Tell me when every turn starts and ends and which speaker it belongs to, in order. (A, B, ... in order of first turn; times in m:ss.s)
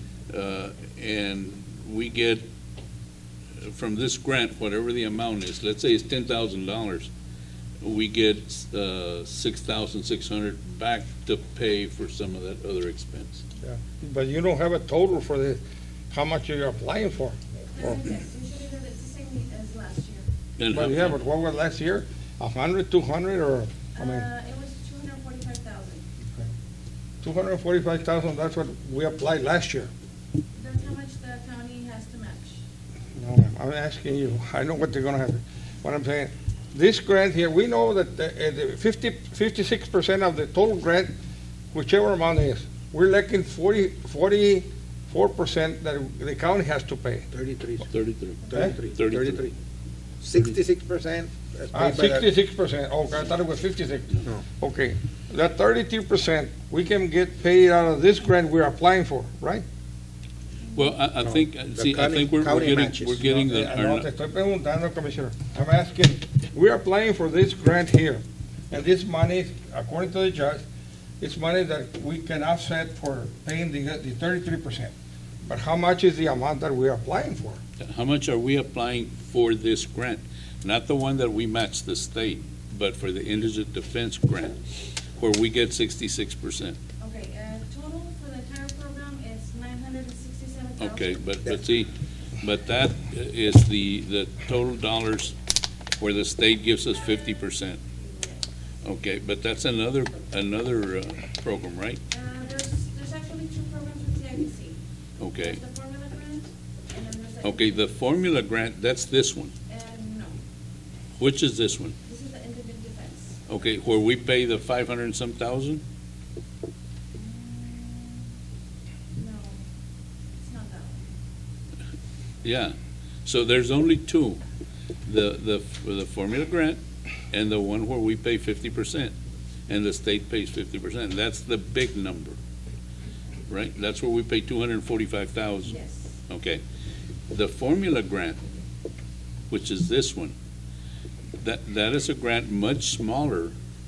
0:00.3-0:02.4 A
0:03.6-0:07.1 A
0:07.8-0:13.4 A
0:13.6-0:18.0 B
0:17.7-0:20.2 C
0:20.6-0:21.2 A
0:20.7-0:24.2 B
0:23.9-0:26.0 C
0:27.2-0:29.9 B
0:30.6-0:32.6 C
0:33.2-0:41.1 B
0:41.7-0:47.3 B
0:47.3-0:47.9 D
0:47.8-0:49.5 A
0:48.5-0:49.5 D
0:50.2-0:52.2 D
0:51.7-0:59.6 B
1:00.8-1:04.1 A
1:01.2-1:03.2 D
1:03.2-1:10.6 B
1:11.2-1:14.9 B
1:15.5-1:17.6 B
1:17.8-1:24.6 A
1:25.2-1:26.8 A
1:27.0-1:31.2 C
1:30.8-1:35.3 A
1:36.0-1:37.8 A
1:38.0-1:38.4 C
1:38.8-1:42.0 A
1:42.1-1:44.8 C
1:45.2-1:45.6 A
1:45.4-1:47.8 C
1:47.4-1:49.5 A
1:49.7-1:50.4 C
1:51.2-1:51.9 A
1:52.0-1:53.4 C
1:53.5-1:55.8 A
1:57.2-1:58.3 C
1:59.1-1:59.6 C
2:00.4-2:01.1 C
2:02.4-2:04.4 A
2:05.1-2:06.8 A
2:07.3-2:09.1 A
2:09.7-2:12.4 A
2:13.5-2:15.8 A
2:15.7-2:16.1 C
2:16.3-2:16.6 A
2:17.3-2:18.4 A
2:19.5-2:20.4 A
2:21.4-2:23.6 A